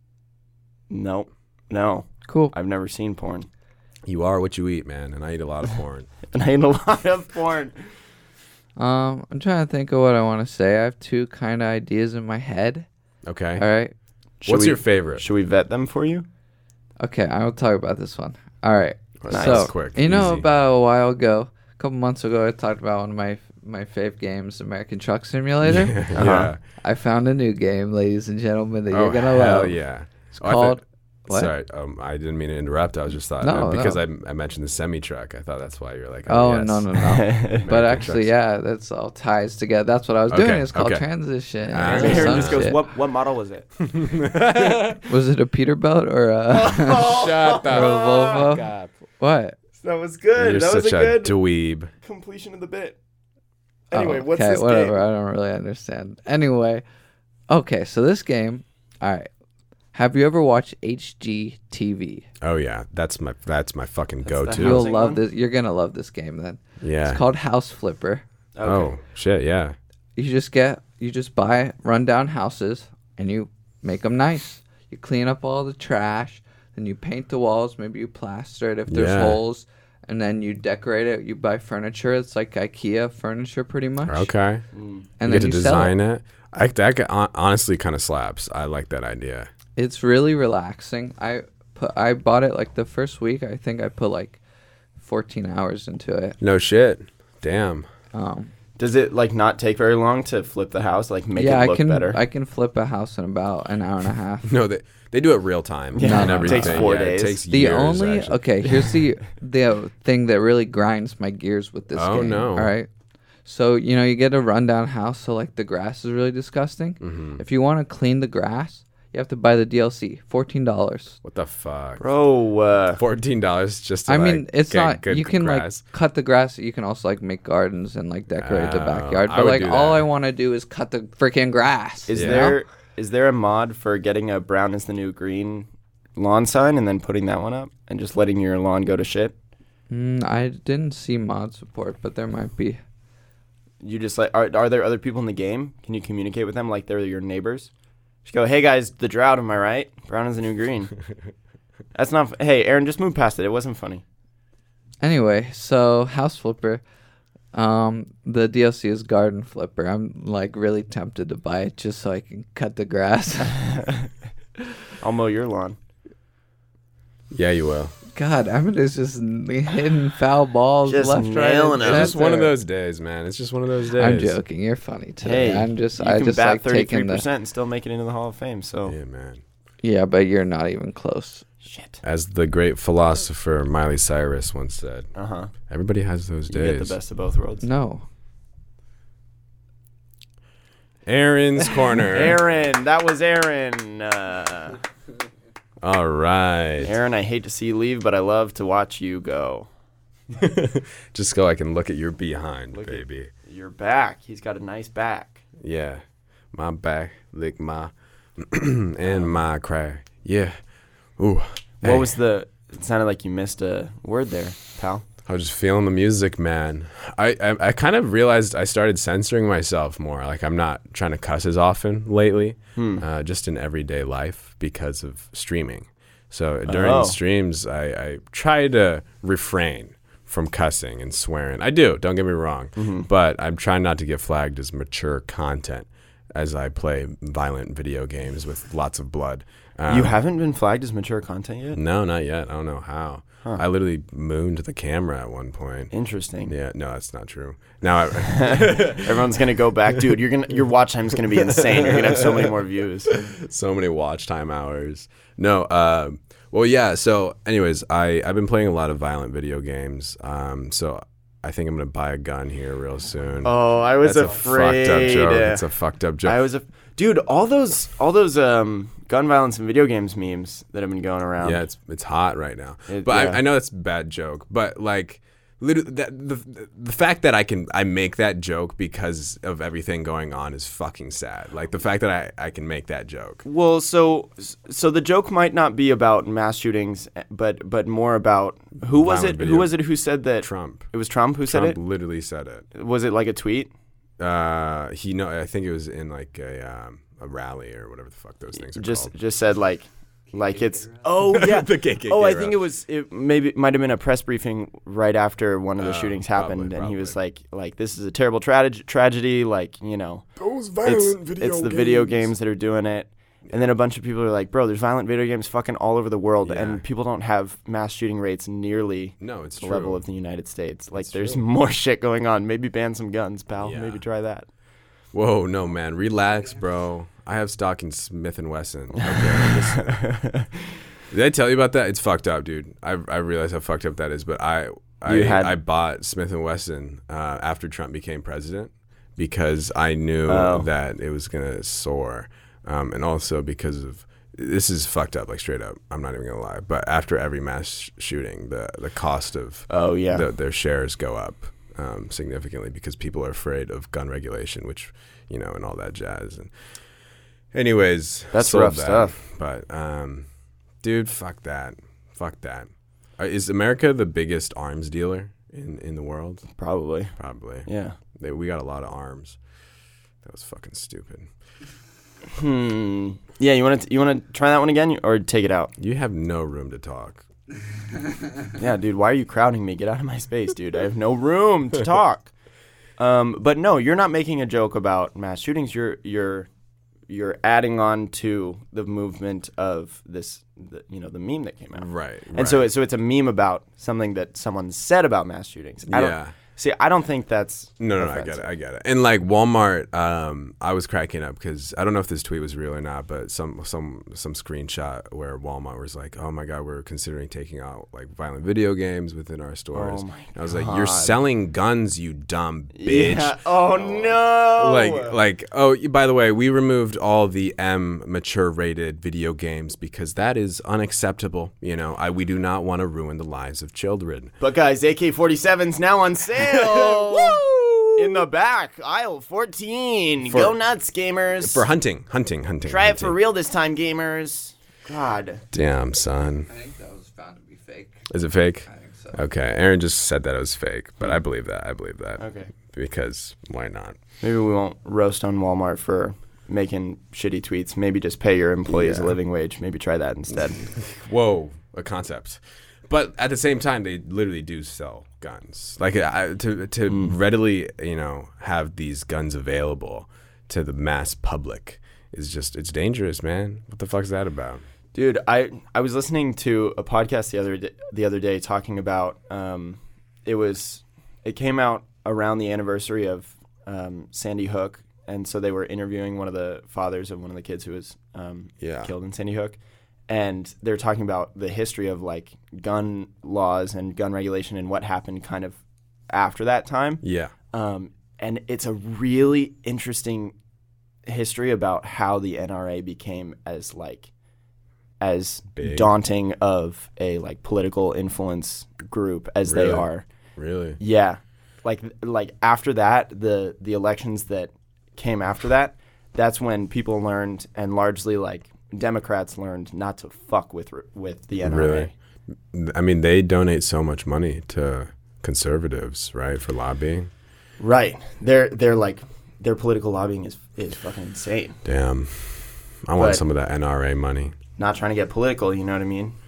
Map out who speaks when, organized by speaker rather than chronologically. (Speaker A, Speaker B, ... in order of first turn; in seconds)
Speaker A: 0.9-3.5, 6.3-7.7, 14.4-16.3, 19.3-19.7, 26.1-26.5, 37.0-37.7, 41.8-43.7, 46.5-48.4, 49.8-51.4, 52.0-53.0, 53.9-55.0, 64.2-65.2, 68.5-69.0, 84.7-85.1, 98.8-102.2, 106.0-107.4, 108.7-108.9, 122.0-123.0, 132.1-139.3, 143.8-147.7, 148.2-150.9, 151.9-154.0, 163.5-164.1, 165.0-165.8, 170.8-172.3, 175.2-179.0, 181.6-182.0, 185.1-185.5, 186.5-187.7, 192.1-194.8, 196.8-199.7, 202.7-205.4, 209.0-209.3, 211.8-215.1, 222.8-223.0, 226.7-227.2, 232.8-233.1, 239.9-241.8, 245.9-246.5, 248.2-253.2, 263.4-265.6, 266.2-271.6, 272.9-273.4, 283.4-291.8, 292.7-293.7, 298.6-310.3, 310.8-324.5, 329.0-330.7, 335.1-335.6, 340.3-340.7, 349.7-350.3, 358.3-359.2, 366.6-367.1, 367.7-368.0, 372.3-375.7, 378.6-382.3, 383.0-386.5, 387.1-398.4, 409.7-411.2, 412.7-415.2, 424.4-431.7, 432.7-435.4, 442.2-442.5, 444.2-450.7, 456.9-457.1, 464.9-485.6, 486.1-490.4, 491.1-494.1, 495.0-500.1, 500.8-511.9, 517.6-521.6, 523.0-523.2, 524.6-526.2
Speaker B: 2.3-2.5, 8.8-12.9, 13.6-13.9, 17.0-26.3, 26.8-29.8, 30.3-31.5, 33.4-34.0, 36.3-42.9, 44.8-49.6, 53.9-56.9, 57.5-59.3, 59.9-62.3, 64.6-68.2, 70.2-84.3, 85.2-86.0, 89.8-94.4, 95.0-96.4, 98.1-98.5, 101.3-104.5, 106.0-112.9, 113.5-121.2, 124.1-132.6, 139.9-142.8, 155.0-156.8, 157.5-163.8, 168.1-172.5, 173.9-177.3, 179.8-181.5, 187.6-188.1, 436.5-438.0, 438.7-439.2
Speaker C: 4.0-6.1, 13.3-13.7, 14.4-15.2, 19.2-20.5, 25.6-26.6, 28.9-37.0, 37.6-38.3, 40.3-41.1, 41.7-42.6, 43.8-45.0, 47.0-48.9, 50.4-51.9, 62.4-64.9, 66.8-67.2, 68.6-69.8, 78.9-79.4, 84.1-84.6, 85.2-89.5, 96.4-97.9, 104.5-108.4, 111.9-112.7, 117.0-117.4, 121.2-122.0, 123.0-125.8, 128.4-130.1, 132.1-132.5, 167.3-167.9, 171.8-174.4, 178.9-179.4, 182.0-185.1, 185.7-187.0, 191.1-192.4, 195.8-196.9, 200.3-203.3, 205.6-210.6, 211.2-212.1, 215.2-240.2, 241.7-245.9, 246.5-249.4, 251.3-252.5, 253.1-266.4, 271.4-283.4, 288.9-289.8, 290.4-290.9, 291.4-292.7, 294.2-299.2, 301.2-302.6, 305.8-307.2, 310.4-312.3, 316.4-316.8, 319.2-320.0, 321.0-321.4, 323.6-324.0, 325.1-329.9, 331.1-356.5, 357.5-360.3, 360.8-366.4, 367.2-369.4, 370.2-371.3, 375.8-377.2, 391.7-392.7, 395.9-396.4, 397.8-424.3, 426.4-428.3, 430.2-430.6, 431.4-433.2, 435.5-436.5, 438.1-444.0, 448.7-449.2, 450.6-464.6, 478.6-478.9, 487.0-487.3, 495.6-495.9, 499.4-499.9, 500.4-500.8, 511.4-511.9, 512.5-517.1, 521.6-524.4